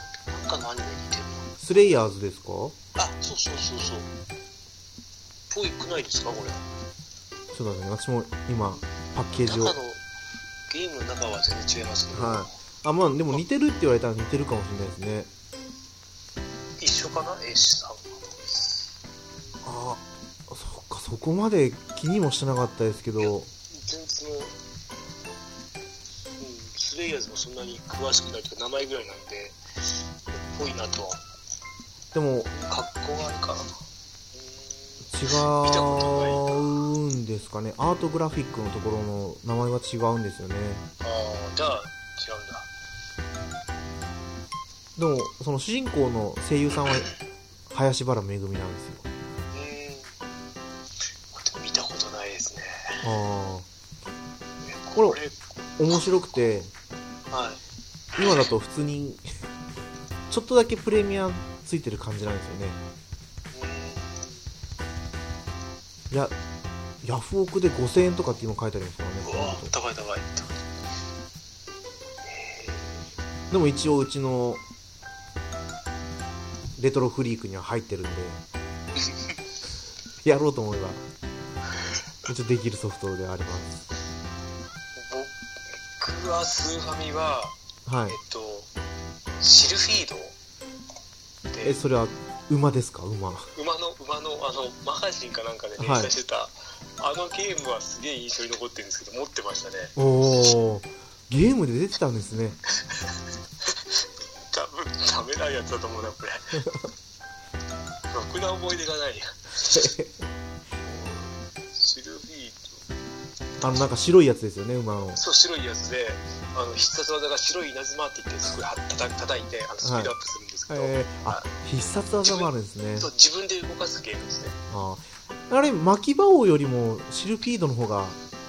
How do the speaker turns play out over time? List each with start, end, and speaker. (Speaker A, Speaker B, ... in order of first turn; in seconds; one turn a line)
Speaker A: 0.3-1.5
Speaker B: 1.6-2.8
Speaker A: 3.0-4.1
Speaker A: 5.5-6.6
Speaker B: 7.5-9.8
Speaker A: 9.4-10.0
Speaker A: 10.7-12.5
Speaker B: 12.1-15.3
Speaker A: 16.8-18.8
Speaker B: 19.6-23.5
Speaker A: 23.2-24.6
Speaker A: 26.4-29.6
Speaker A: 30.3-31.2
Speaker B: 32.1-32.5
Speaker A: 32.5-33.7
Speaker A: 34.3-36.8
Speaker B: 35.1-40.9
Speaker A: 41.0-42.7
Speaker B: 45.0-47.1
Speaker B: 47.7-49.1
Speaker A: 49.5-50.1
Speaker A: 51.3-53.0
Speaker B: 53.0-53.7
Speaker A: 54.6-55.4
Speaker B: 55.8-56.7
Speaker A: 57.3-57.6
Speaker A: 58.1-58.4
Speaker B: 58.2-59.2
Speaker B: 60.3-62.8
Speaker A: 63.5-64.5
Speaker B: 66.1-66.3
Speaker B: 67.0-69.7
Speaker A: 69.2-70.6
Speaker A: 72.2-73.0
Speaker B: 73.5-74.6
Speaker B: 76.8-78.4
Speaker A: 79.0-79.3
Speaker B: 80.2-81.0
Speaker B: 82.2-83.9
Speaker A: 85.0-85.3
Speaker A: 86.0-88.7
Speaker B: 87.8-88.2
Speaker A: 89.4-90.3
Speaker A: 91.5-91.8
Speaker B: 91.6-93.5
Speaker A: 93.5-99.9
Speaker B: 95.8-96.1
Speaker B: 100.0-102.6
Speaker A: 102.8-106.7
Speaker A: 108.1-109.9
Speaker B: 109.7-110.2
Speaker A: 110.8-112.8
Speaker B: 113.6-115.2
Speaker A: 115.1-121.5
Speaker B: 119.8-120.1
Speaker B: 120.7-123.1
Speaker A: 122.2-124.6
Speaker B: 124.7-128.2